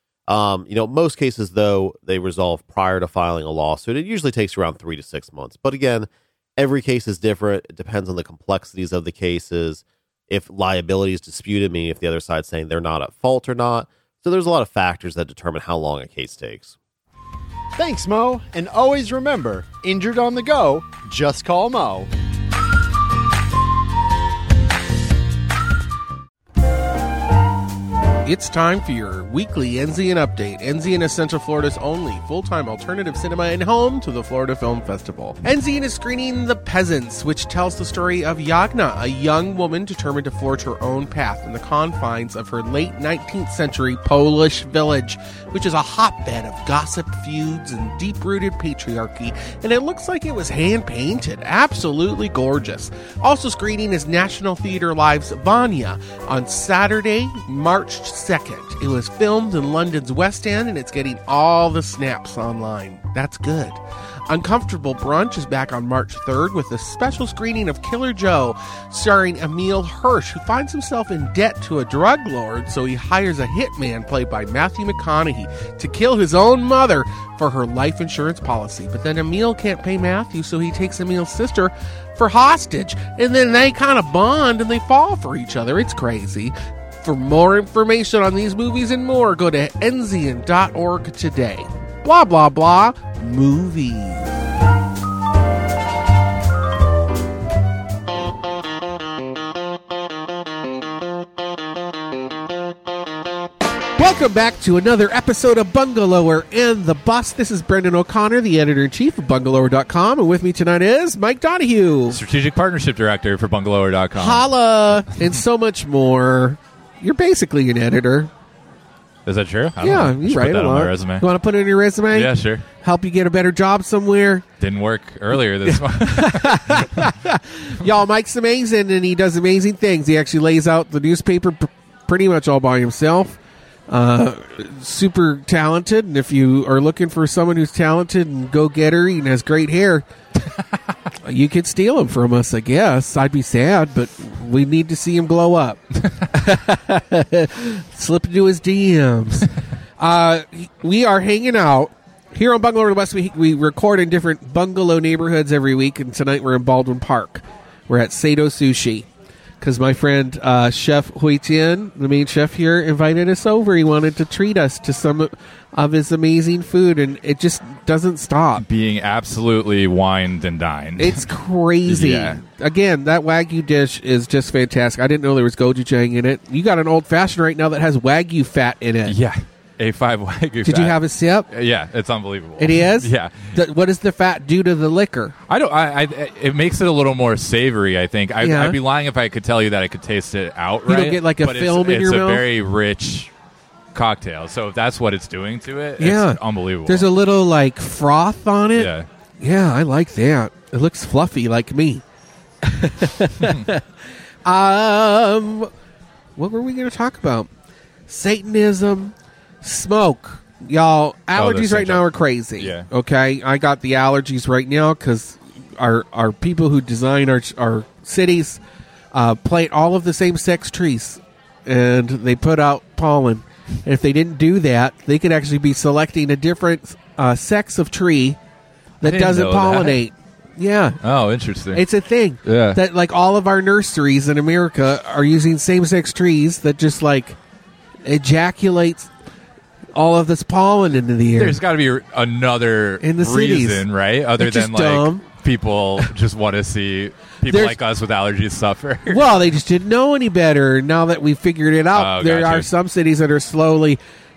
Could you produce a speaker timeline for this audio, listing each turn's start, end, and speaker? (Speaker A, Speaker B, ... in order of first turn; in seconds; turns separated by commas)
Speaker A: 0.3-16.7, Speaker B: 17.8-22.1, Speaker C: 28.2-94.3, Speaker C: 104.0-112.2, Speaker D: 112.1-114.5, Speaker C: 114.1-118.3, Speaker D: 119.2-121.2, Speaker C: 119.8-124.4, Speaker D: 122.1-122.6, Speaker D: 124.6-127.1, Speaker C: 125.6-140.1, Speaker C: 141.2-159.1, Speaker C: 159.6-168.6, Speaker D: 168.6-171.2, Speaker C: 171.0-179.2, Speaker D: 171.8-172.4, Speaker D: 179.1-181.0, Speaker C: 180.6-181.5, Speaker D: 181.5-183.6, Speaker C: 182.6-185.3, Speaker D: 185.5-193.3, Speaker C: 188.4-188.8, Speaker C: 190.9-192.4, Speaker D: 193.9-197.1, Speaker C: 196.0-202.0, Speaker D: 198.8-199.1, Speaker C: 202.6-203.8, Speaker D: 203.4-203.6, Speaker C: 204.4-205.7, Speaker C: 206.4-207.5, Speaker C: 208.1-218.6, Speaker D: 211.3-212.8, Speaker C: 219.1-228.4, Speaker C: 229.0-231.0, Speaker D: 229.0-230.0, Speaker D: 231.0-231.8, Speaker C: 231.7-237.4, Speaker D: 232.4-232.8, Speaker C: 238.0-239.1, Speaker C: 239.9-241.6, Speaker D: 241.4-249.2, Speaker C: 243.0-243.8, Speaker C: 244.4-245.2, Speaker C: 247.4-247.8, Speaker C: 249.1-254.0, Speaker D: 251.9-252.7